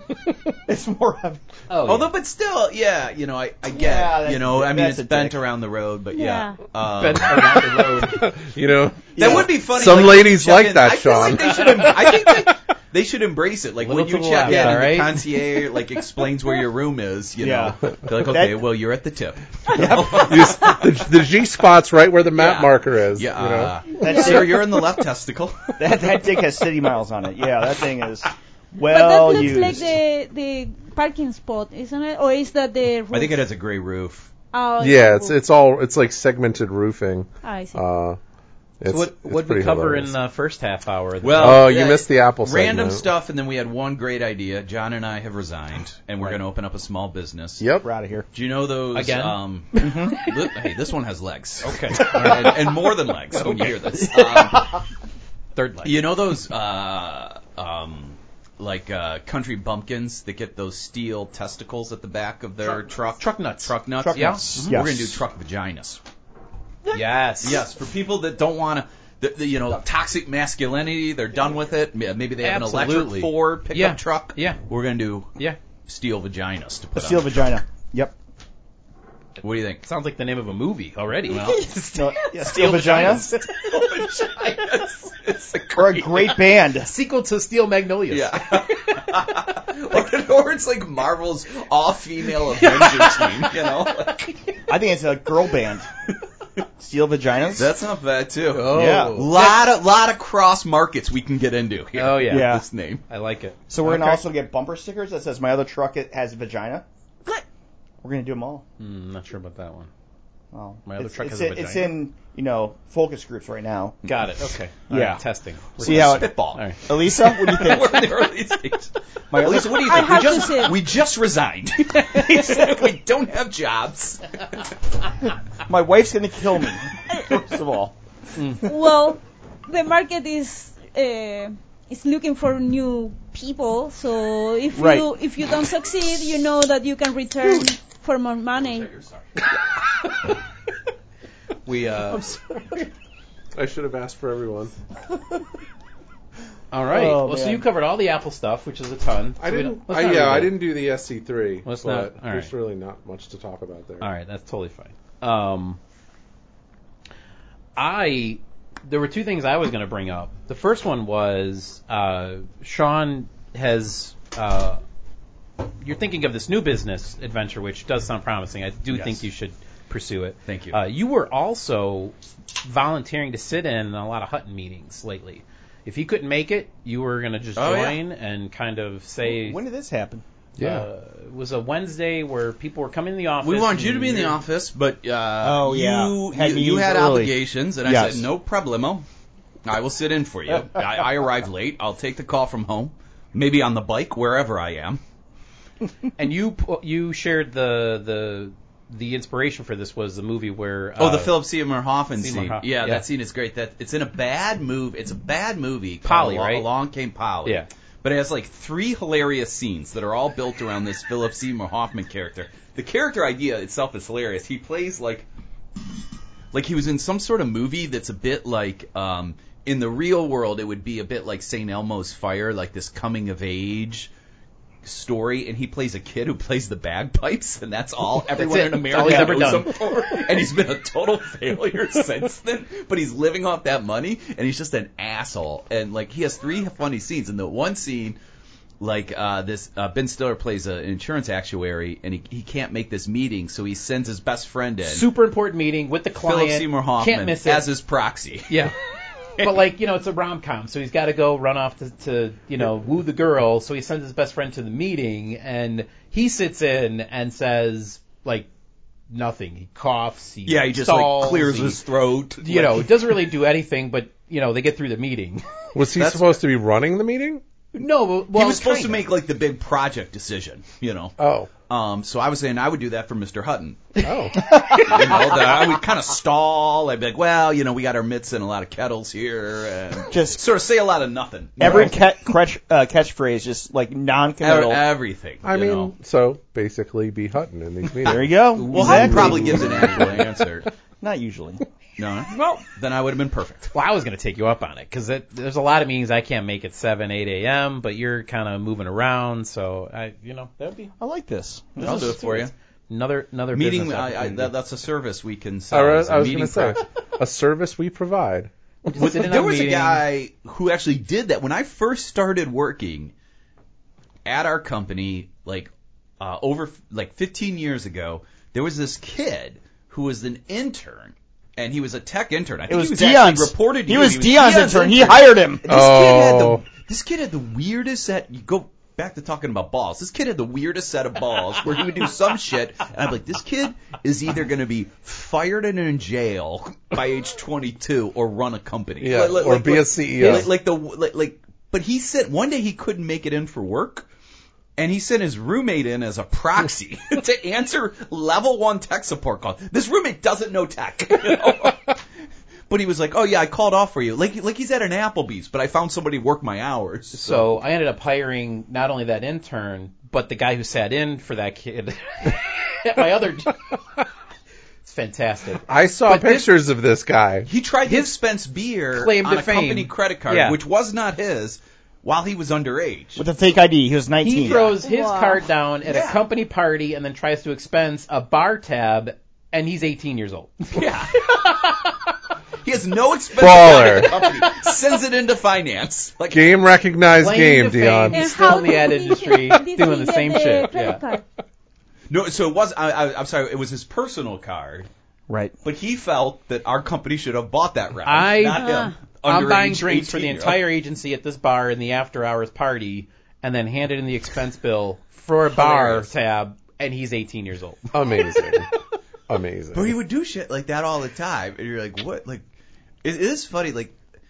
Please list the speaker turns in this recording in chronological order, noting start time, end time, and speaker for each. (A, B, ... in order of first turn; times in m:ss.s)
0:00.7-0:01.4 A
0:01.7-0:02.1 B
0:01.8-0:07.8 C
0:03.7-0:05.4 A
0:06.1-0:06.7 D
0:06.8-0:08.3 B
0:08.0-0:12.4 E
0:09.2-0:09.5 A
0:09.2-0:21.0 C
0:11.5-0:11.9 B
0:13.8-0:15.6 B
0:17.4-0:18.6 A
0:19.8-0:23.8 E
0:19.8-0:20.1 A
0:22.4-0:22.7 B
0:23.1-0:25.7 C
0:24.0-0:24.8 A
0:24.0-0:24.4 D
0:25.8-0:29.9 A
0:28.8-0:33.4 D
0:33.1-0:34.3 C
0:34.5-0:35.4 D
0:34.8-0:38.2 E
0:37.4-0:37.8 D
0:38.8-0:40.1 E
0:38.8-0:41.8 B
0:41.2-0:47.7 C
0:41.4-0:43.1 E
0:47.6-0:47.9 E
0:47.8-0:48.3 A
0:48.3-0:54.8 C
0:48.9-0:49.4 B
0:49.8-0:50.2 A
0:51.6-0:54.8 B
0:55.5-0:56.0 B
0:55.8-1:06.0 C
1:02.6-1:04.9 B
1:04.0-1:05.2 A
1:06.9-1:07.6 B
1:07.4-1:15.3 C
1:12.4-1:14.6 B
1:15.8-1:17.5 C
1:16.9-1:18.1 A
1:19.4-1:19.8 C
1:19.8-1:24.9 B
1:21.9-1:23.3 A
1:22.5-1:26.3 C
1:25.7-1:26.9 A
1:26.7-1:29.0 B
1:28.1-1:34.3 C
1:32.4-1:34.5 B
1:34.7-1:35.9 A
1:36.8-1:37.7 A
1:37.6-1:43.0 C
1:38.5-1:39.6 B
1:38.7-1:39.3 A
1:41.9-1:44.2 B
1:42.2-1:42.6 A
1:43.7-1:46.8 A
1:48.0-1:48.6 A
1:48.8-1:49.9 B
1:50.5-1:54.0 A
1:50.8-1:51.9 B
1:54.0-1:56.8 B
1:54.9-1:55.2 A
1:55.8-1:58.1 A
1:55.8-2:04.6 C
1:59.3-2:00.4 A
1:59.6-2:00.8 D
2:02.4-2:02.6 B
2:05.6-2:07.9 A
2:07.1-2:07.4 D
2:08.4-2:08.7 B
2:08.6-2:19.0 D
2:14.7-2:15.1 A
2:21.6-2:22.3 B
2:23.5-2:24.7 E
2:26.7-2:30.6 B
2:26.8-2:27.6 A
2:29.4-2:34.1 E
2:31.6-2:32.5 B
2:34.0-2:35.8 B
2:37.8-2:44.8 B
2:45.8-2:59.6 B
2:48.9-2:49.2 C
2:50.4-2:50.8 C
2:57.6-2:58.0 C
2:59.2-3:00.2 A
3:00.6-3:00.9 E
3:00.6-3:04.4 B
3:03.4-3:09.0 C
3:05.4-3:08.3 A
3:09.6-3:15.0 C
3:16.2-3:21.4 B
3:21.0-3:35.3 C
3:22.2-3:23.0 B
3:26.0-3:26.7 B
3:36.5-3:44.1 C
3:44.8-3:58.2 C
3:48.3-3:49.9 B
3:48.9-3:49.5 A
3:58.8-4:05.1 C
4:04.8-4:07.7 B
4:06.2-4:08.6 C
4:08.5-4:08.7 B
4:09.4-4:18.5 B
4:19.1-4:21.8 B
4:20.4-4:23.1 C
4:22.4-4:25.4 B
4:25.7-4:27.4 E
4:25.9-4:26.4 C
4:27.7-4:29.1 B
4:28.3-4:34.0 C
4:31.2-4:31.5 E
4:34.0-4:34.4 E
4:34.7-4:42.0 C
4:40.1-4:40.4 A
4:41.6-4:44.8 A
4:44.4-4:45.9 C
4:45.4-4:48.5 E
4:48.0-4:50.2 A
4:48.5-4:50.2 B
4:48.6-4:50.7 C
4:49.2-4:50.0 E
4:51.0-4:51.6 A
4:52.0-4:53.7 C
4:53.7-5:00.9 B
5:01.0-5:02.2 A
5:01.8-5:04.5 B
5:01.8-5:02.5 C
5:03.5-5:06.8 C
5:05.7-5:08.5 E
5:08.9-5:10.0 B
5:08.9-5:13.1 C
5:14.2-5:44.1 C
5:22.7-5:25.6 A
5:25.7-5:26.6 E
5:39.0-5:40.5 E
5:40.2-5:40.5 B
5:44.8-5:52.0 C
5:52.7-5:57.5 C
5:57.1-6:03.8 B
6:04.8-6:06.5 B
6:05.6-6:07.5 E
6:07.4-6:13.2 C
6:07.8-6:08.2 B
6:08.9-6:10.6 B
6:13.2-6:14.7 A
6:14.2-6:22.1 B
6:14.4-6:14.7 C
6:14.8-6:15.4 D
6:15.8-6:16.2 C
6:20.7-6:21.3 C
6:22.6-6:26.6 C
6:23.4-6:24.2 E
6:23.9-6:24.7 B
6:26.3-6:28.2 E
6:27.1-6:31.0 B
6:28.1-6:31.2 D
6:32.1-6:34.9 C
6:35.3-6:35.5 A
6:35.6-6:40.6 C
6:38.0-6:47.9 B
6:38.5-6:38.9 D
6:45.6-6:46.1 C
6:47.9-6:48.7 E
6:49.3-6:50.0 E
6:49.7-6:52.4 C
6:53.0-6:54.0 C